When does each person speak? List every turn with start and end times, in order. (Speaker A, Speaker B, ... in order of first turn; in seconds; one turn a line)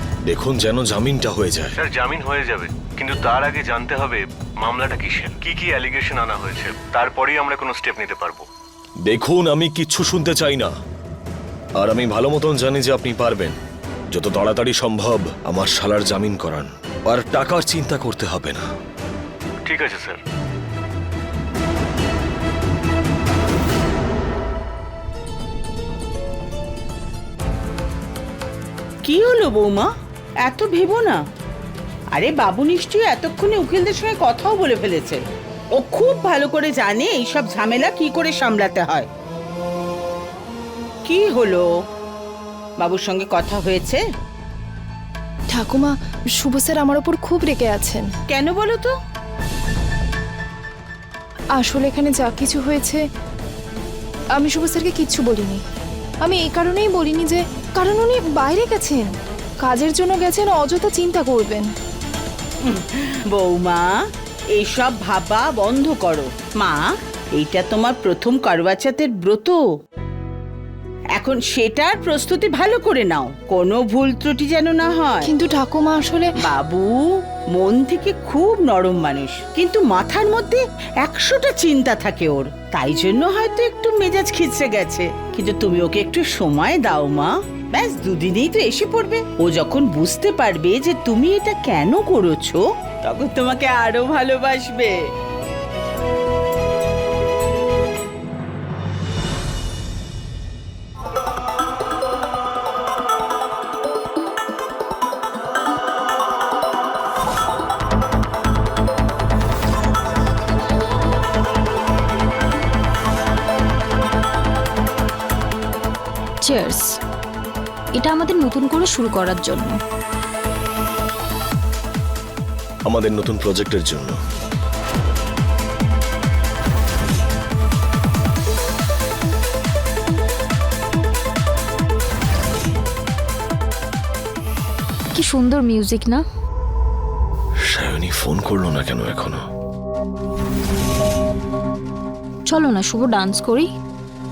Speaker A: 0.2-1.8
Speaker B: 1.8-8.4
Speaker A: 9.0-10.7
Speaker A: 11.8-13.6
Speaker A: 14.1-18.6
Speaker B: 19.6-20.2
Speaker C: 29.0-29.9
Speaker C: 30.4-31.2
Speaker C: 32.1-35.2
Speaker C: 35.8-39.1
Speaker C: 41.0-41.6
Speaker C: 42.8-44.0
Speaker D: 45.5-48.1
Speaker C: 48.3-48.9
Speaker D: 51.5-53.0
Speaker D: 54.4-55.6
Speaker D: 56.2-59.1
Speaker D: 59.6-61.7
Speaker C: 62.6-63.9
Speaker C: 64.5-66.8
Speaker C: 67.3-69.6
Speaker C: 71.2-75.3
Speaker D: 75.2-76.3
Speaker C: 76.4-77.0
Speaker C: 77.5-94.9
Speaker E: 116.4-117.0
Speaker E: 118.0-119.8
Speaker A: 122.9-124.2
Speaker E: 135.1-136.2
Speaker A: 137.7-139.4
Speaker E: 142.5-143.7